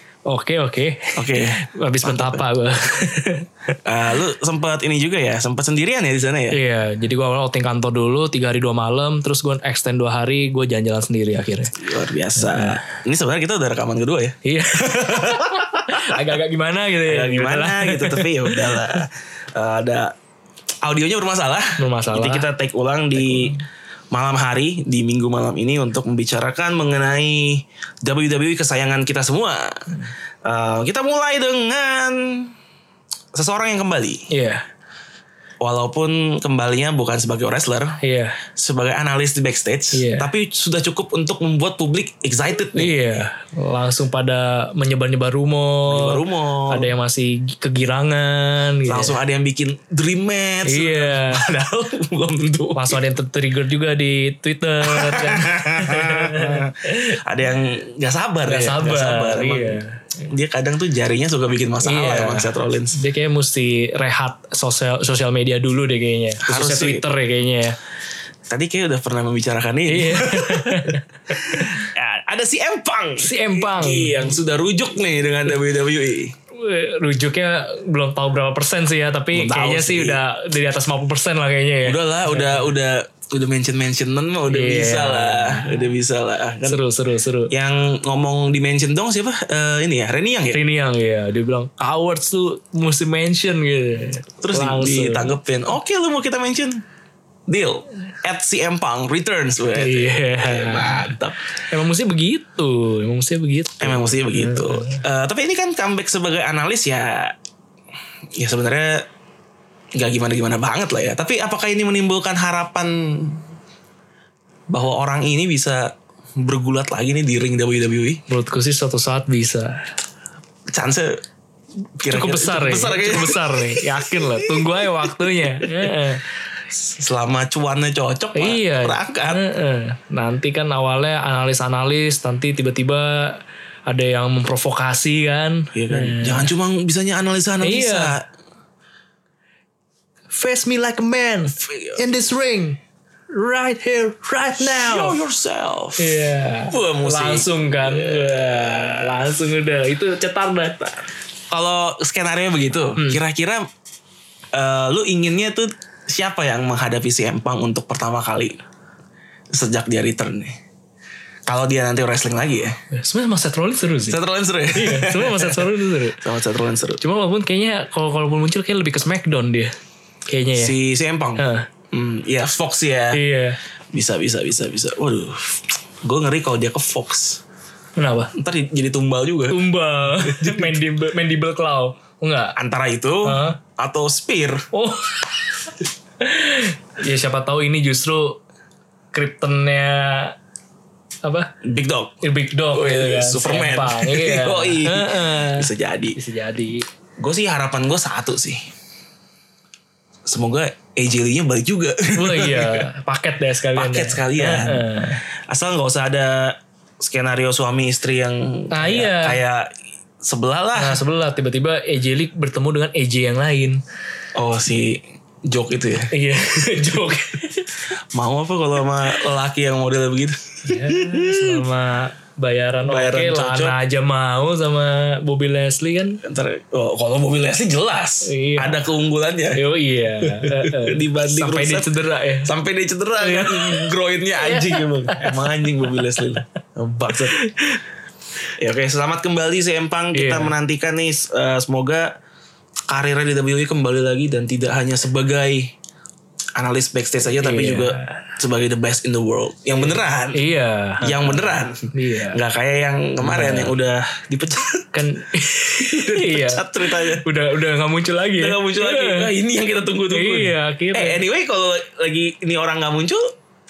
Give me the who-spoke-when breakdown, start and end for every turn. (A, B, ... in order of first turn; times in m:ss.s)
0:00.3-0:03.8 A
0:01.2-0:02.4 B
0:03.8-0:06.6 B
0:06.5-0:11.7 A
0:11.8-0:16.2 B
0:12.4-0:12.8 A
0:14.4-0:19.0 A
0:17.1-0:20.1 B
0:20.8-0:23.6 B
0:21.8-0:22.5 A
0:23.2-0:23.6 A
0:24.1-0:29.9 B
0:30.4-0:32.5 B
0:33.3-0:34.3 B
0:34.3-0:34.6 A
0:35.6-0:43.3 B
0:38.0-0:38.4 A
0:39.9-0:40.3 A
0:42.8-0:49.2 A
0:45.9-0:46.9 B
0:48.9-0:53.0 B
0:50.6-0:51.4 A
0:52.8-0:57.2 A
0:54.8-1:03.0 B
0:58.5-1:00.1 A
1:01.8-1:07.8 A
1:06.4-1:07.0 B
1:08.5-1:16.4 B
1:09.9-1:11.8 A
1:13.2-1:14.4 A
1:16.6-1:22.7 A
1:19.3-1:20.2 B
1:21.8-1:26.8 B
1:24.5-1:25.9 A
1:26.6-1:27.5 A
1:27.5-1:30.6 B
1:30.5-1:35.4 A
1:34.4-1:36.8 B
1:37.5-1:41.4 B
1:39.8-1:41.2 A
1:41.7-1:45.0 A
1:43.8-1:47.4 B
1:48.4-1:49.0 B
1:50.0-1:53.5 B
1:54.7-1:58.2 B
1:58.3-1:59.8 A
2:00.7-2:01.2 B
2:02.0-2:06.0 B
2:02.1-2:06.2 A
2:06.7-2:09.4 B
2:08.4-2:16.5 A
2:15.7-2:18.2 B
2:17.6-2:18.2 A
2:20.3-2:22.8 A
2:21.6-2:22.0 B
2:23.3-2:25.2 A
2:24.7-2:26.2 B
2:26.0-2:30.8 A
2:26.7-2:29.4 B
2:30.8-2:33.7 B
2:34.5-2:38.6 B
2:39.5-2:40.6 B
2:41.5-2:42.8 B
2:42.9-2:44.2 A
2:44.1-2:47.0 B
2:44.7-2:46.2 A
2:47.0-2:49.7 A
2:50.3-2:50.8 A
2:50.6-2:53.2 B
2:51.4-2:51.7 A
2:53.1-2:53.6 A
2:53.9-2:57.4 B
2:58.0-2:58.3 A
2:58.4-3:00.8 B
2:59.5-3:02.6 A
3:02.6-3:04.6 B
3:03.2-3:03.6 A
3:04.7-3:08.4 A
3:09.1-3:10.4 A
3:11.2-3:11.5 A
3:11.6-3:12.2 B
3:12.2-3:16.9 A
3:12.7-3:16.2 B
3:17.2-3:18.7 B
3:20.2-3:22.9 B
3:22.2-3:25.2 A
3:23.7-3:29.7 B
3:28.7-3:29.4 A
3:30.2-3:31.0 B
3:30.8-3:33.8 A
3:34.4-3:36.1 B
3:36.1-3:37.7 A
3:38.1-3:41.6 B
3:40.7-3:46.2 A
3:42.8-3:43.8 B
3:46.2-3:49.6 B
3:48.2-3:48.8 A
3:49.6-3:52.5 A
3:50.2-3:57.4 B
3:53.2-3:55.4 A
3:57.3-3:57.8 A
3:58.6-4:02.1 B
4:00.1-4:00.5 A
4:02.9-4:05.7 B
4:06.6-4:10.4 B
4:07.4-4:08.2 A
4:09.9-4:12.4 A
4:11.0-4:14.9 B
4:13.2-4:13.7 A
4:14.9-4:19.3 A
4:15.8-4:17.2 B
4:18.4-4:23.3 B
4:20.1-4:21.2 A